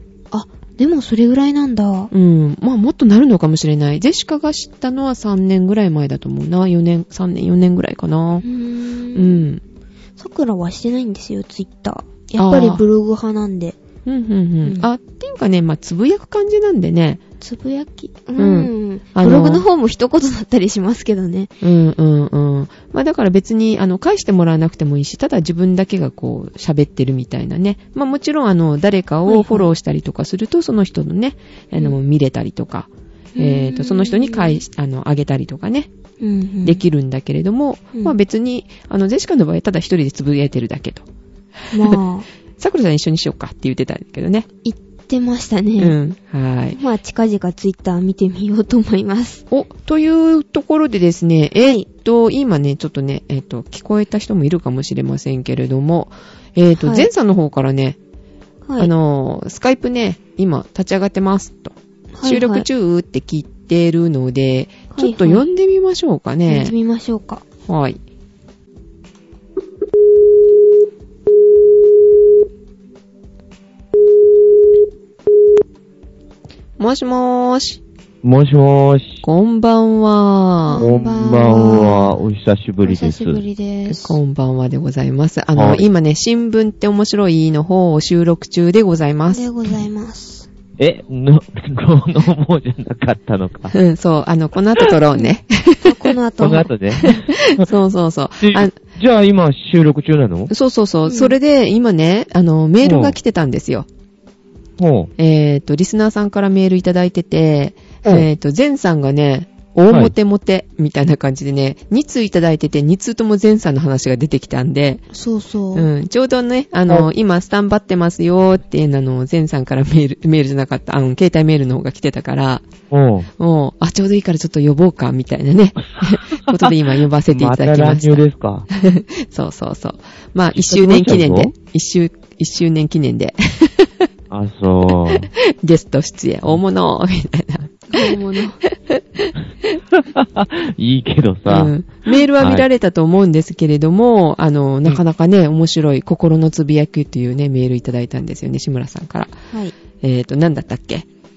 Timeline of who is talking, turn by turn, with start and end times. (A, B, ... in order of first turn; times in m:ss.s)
0:00.3-0:02.1 A
0:02.1-0:08.4 B
0:08.4-0:09.4 A
0:09.1-0:09.6 B
0:10.2-0:13.8 A
0:12.4-0:12.8 B
0:14.0-0:17.2 B
0:17.4-0:21.5 A
0:18.4-0:19.6 B
0:21.6-0:35.9 B
0:29.2-0:29.7 A
0:33.4-0:34.6 A
0:36.2-0:36.8 A
0:36.6-0:41.0 B
0:41.7-0:42.3 A
0:42.6-0:44.5 B
0:44.6-0:46.0 A
0:45.8-0:46.8 B
0:46.8-0:49.4 A
0:49.5-0:58.0 B
0:56.8-0:57.1 A
0:58.8-1:06.7 B
1:02.1-1:02.6 A
1:04.9-1:05.5 A
1:06.5-1:07.4 A
1:07.6-1:08.0 B
1:16.8-1:17.8 B
1:18.2-1:19.2 C
1:19.2-1:20.9 B
1:20.6-1:22.2 A
1:20.8-1:23.4 C
1:22.8-1:24.2 A
1:23.9-1:29.5 B
1:25.5-1:25.8 C
1:29.3-1:30.5 A
1:30.8-1:33.7 C
1:33.7-1:36.1 B
1:35.8-1:36.7 A
1:36.4-1:37.6 C
1:37.0-1:38.7 B
1:38.4-1:40.5 C
1:40.5-1:43.9 B
1:41.0-1:41.4 A
1:42.8-1:43.2 C
1:44.8-1:45.1 C
1:45.2-1:55.0 B
1:55.1-1:55.9 A
1:55.7-2:02.7 B
2:02.9-2:03.3 C
2:03.4-2:08.2 B
2:06.4-2:06.8 C
2:07.3-2:08.7 C
2:08.7-2:14.1 B
2:10.5-2:11.5 C
2:14.3-2:15.3 C
2:14.9-2:19.3 B
2:17.9-2:18.6 A
2:19.9-2:21.8 C
2:21.5-2:29.3 B
2:22.4-2:22.6 C
2:30.0-2:31.0 B